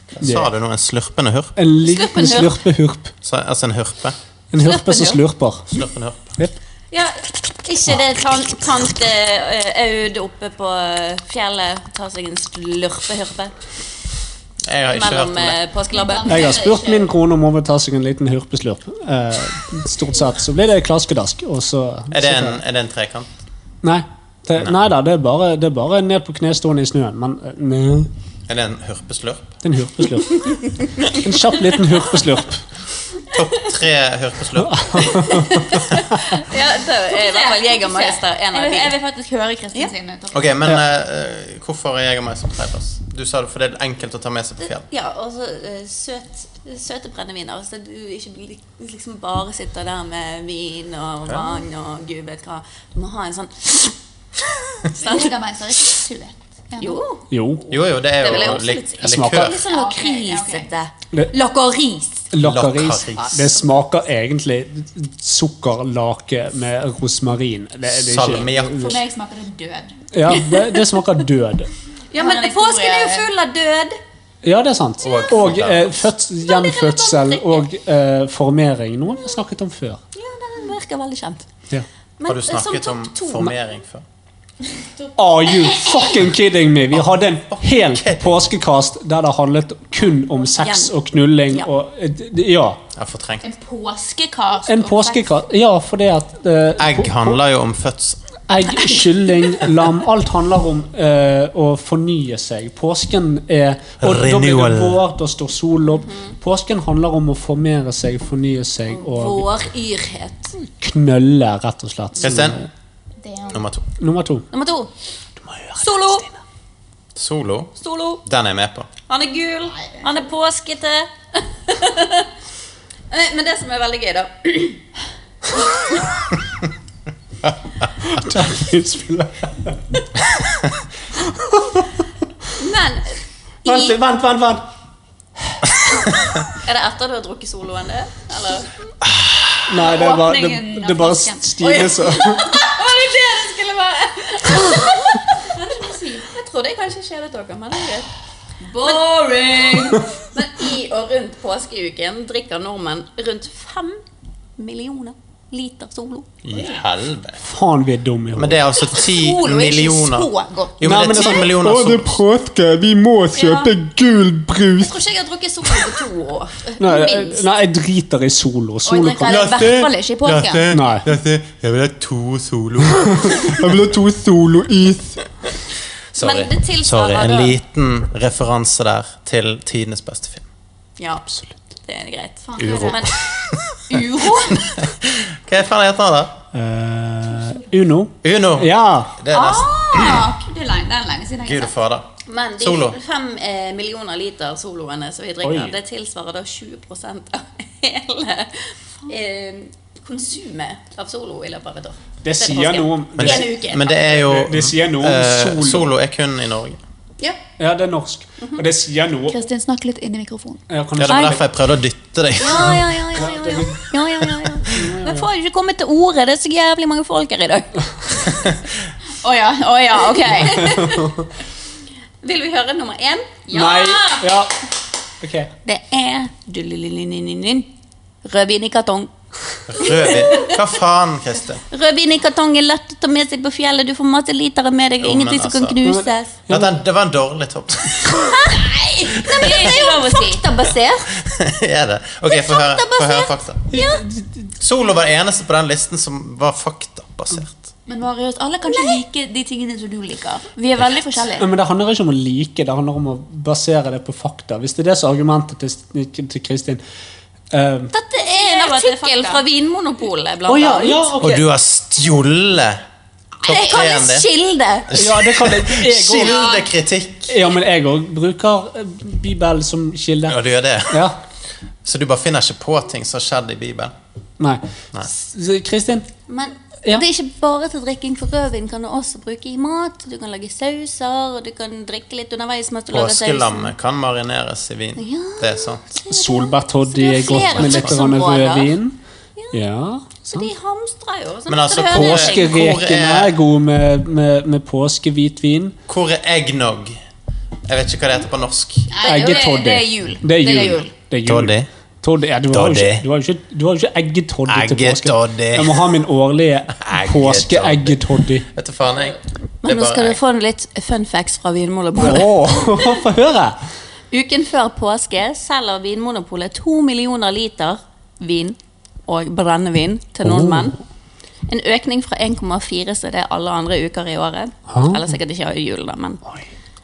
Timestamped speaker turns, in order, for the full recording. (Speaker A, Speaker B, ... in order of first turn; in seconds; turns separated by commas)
Speaker A: 0.1-1.6, Speaker B: 0.2-0.5, Speaker B: 1.6-3.1, Speaker C: 1.8-2.5, Speaker A: 3.2-4.2, Speaker B: 4.5-5.7, Speaker C: 4.6-5.2, Speaker A: 5.7-6.3, Speaker C: 6.9-13.5, Speaker A: 14.7-15.6, Speaker C: 14.9-16.6, Speaker D: 15.9-17.1, Speaker B: 16.3-22.6, Speaker A: 22.1-23.3, Speaker B: 23.8-28.1, Speaker A: 28.5-29.6, Speaker B: 29.6-32.6, Speaker A: 33.3-35.2, Speaker B: 34.6-36.2, Speaker C: 35.1-39.0, Speaker D: 37.1-40.6, Speaker A: 40.3-44.9, Speaker C: 44.6-55.3, Speaker A: 51.3-51.6, Speaker D: 55.0-57.0, Speaker C: 56.8-57.3, Speaker B: 57.3-57.7, Speaker A: 57.7-59.6, Speaker C: 58.2-62.2, Speaker B: 59.0-59.5, Speaker D: 59.7-60.7, Speaker B: 62.3-69.0, Speaker A: 62.4-63.4, Speaker A: 68.0-68.9, Speaker D: 68.7-70.0, Speaker B: 70.1-71.7, Speaker C: 72.1-74.0, Speaker D: 72.2-73.3, Speaker B: 74.4-80.0, Speaker A: 75.0-76.0, Speaker C: 76.5-77.7, Speaker C: 80.2-81.5, Speaker C: 82.2-83.5, Speaker A: 82.3-84.0, Speaker B: 85.2-92.8, Speaker A: 86.9-88.5, Speaker C: 90.6-90.9, Speaker A: 93.0-93.5, Speaker D: 93.4-95.4, Speaker B: 94.7-97.4, Speaker A: 96.8-98.2, Speaker B: 98.5-109.5, Speaker A: 104.0-105.0, Speaker C: 106.0-106.3, Speaker C: 108.9-110.6, Speaker B: 110.8-112.7, Speaker A: 112.2-112.6, Speaker D: 113.2-113.6, Speaker A: 113.5-113.8, Speaker B: 114.0-114.5, Speaker C: 114.5-114.9, Speaker B: 115.4-116.4, Speaker C: 115.8-116.2, Speaker A: 117.2-118.9, Speaker C: 117.8-118.2, Speaker C: 119.1-122.3, Speaker C: 123.1-124.8, Speaker B: 128.0-129.8, Speaker B: 131.3-131.8, Speaker C: 132.6-134.0, Speaker B: 133.7-134.7, Speaker C: 136.5-138.8, Speaker A: 139.2-139.5, Speaker B: 139.7-142.6, Speaker D: 139.8-141.8, Speaker C: 141.6-148.1, Speaker D: 145.6-146.3, Speaker D: 148.7-150.1, Speaker C: 148.7-154.0, Speaker C: 154.6-156.3, Speaker A: 156.4-157.4, Speaker B: 157.4-158.6, Speaker A: 158.4-162.2, Speaker D: 159.0-160.8, Speaker B: 160.8-165.0, Speaker C: 163.3-163.7, Speaker C: 164.8-167.4, Speaker B: 166.8-169.7, Speaker D: 168.9-170.7, Speaker A: 169.3-173.8, Speaker B: 170.7-171.1, Speaker B: 173.0-175.2, Speaker A: 176.1-180.4, Speaker C: 176.2-177.6, Speaker C: 181.0-181.3, Speaker B: 181.3-181.6, Speaker C: 181.8-183.2, Speaker D: 182.4-183.1, Speaker A: 182.6-183.8, Speaker D: 183.9-184.7, Speaker C: 183.9-184.4, Speaker A: 184.5-186.4, Speaker B: 186.5-189.2, Speaker A: 188.2-190.3, Speaker D: 189.3-191.8, Speaker A: 191.4-193.0, Speaker C: 192.3-204.0, Speaker B: 195.4-195.8, Speaker B: 202.2-203.5, Speaker A: 203.2-206.8, Speaker B: 204.2-205.9, Speaker B: 207.6-209.4, Speaker D: 209.3-210.6, Speaker B: 210.7-211.4, Speaker A: 211.0-213.0, Speaker C: 211.1-211.4, Speaker C: 212.4-218.4, Speaker B: 213.2-213.8, Speaker B: 214.7-215.3, Speaker D: 219.2-220.9, Speaker C: 220.2-221.0, Speaker B: 220.6-221.3, Speaker C: 222.2-224.1, Speaker B: 223.5-224.5, Speaker B: 225.2-225.5, Speaker C: 225.7-227.7, Speaker C: 228.2-229.1, Speaker A: 229.7-231.6, Speaker C: 229.8-230.6, Speaker C: 231.7-236.3, Speaker A: 235.0-235.8, Speaker B: 235.8-236.7, Speaker A: 236.5-238.3, Speaker C: 238.1-241.1, Speaker D: 239.2-240.4, Speaker A: 241.2-243.7, Speaker C: 242.3-244.0, Speaker B: 243.7-244.5, Speaker A: 244.6-247.7, Speaker D: 247.9-251.5, Speaker B: 251.4-256.8, Speaker B: 257.5-257.9, Speaker C: 257.9-261.2, Speaker D: 258.3-259.4, Speaker B: 260.5-261.4, Speaker A: 261.2-262.8, Speaker A: 263.5-264.3, Speaker C: 263.5-264.9, Speaker A: 264.9-267.3, Speaker B: 264.9-266.4, Speaker B: 267.3-271.2, Speaker A: 270.3-271.1, Speaker A: 271.9-273.9, Speaker B: 274.4-276.1, Speaker C: 276.3-283.7, Speaker A: 282.9-285.8, Speaker C: 285.0-288.7, Speaker B: 286.1-289.0, Speaker A: 287.3-288.0, Speaker B: 289.5-290.5, Speaker C: 290.3-292.6, Speaker A: 291.5-293.3, Speaker B: 291.9-295.8, Speaker A: 295.9-297.0, Speaker A: 297.7-298.9, Speaker D: 298.9-300.9, Speaker C: 299.0-299.4, Speaker B: 299.0-308.4, Speaker A: 301.3-301.7, Speaker A: 302.5-303.1, Speaker A: 304.5-305.8, Speaker A: 306.8-310.2, Speaker C: 309.6-312.9, Speaker B: 312.0-313.6, Speaker C: 314.1-320.8, Speaker B: 320.2-320.8, Speaker C: 321.5-326.2, Speaker B: 324.7-325.0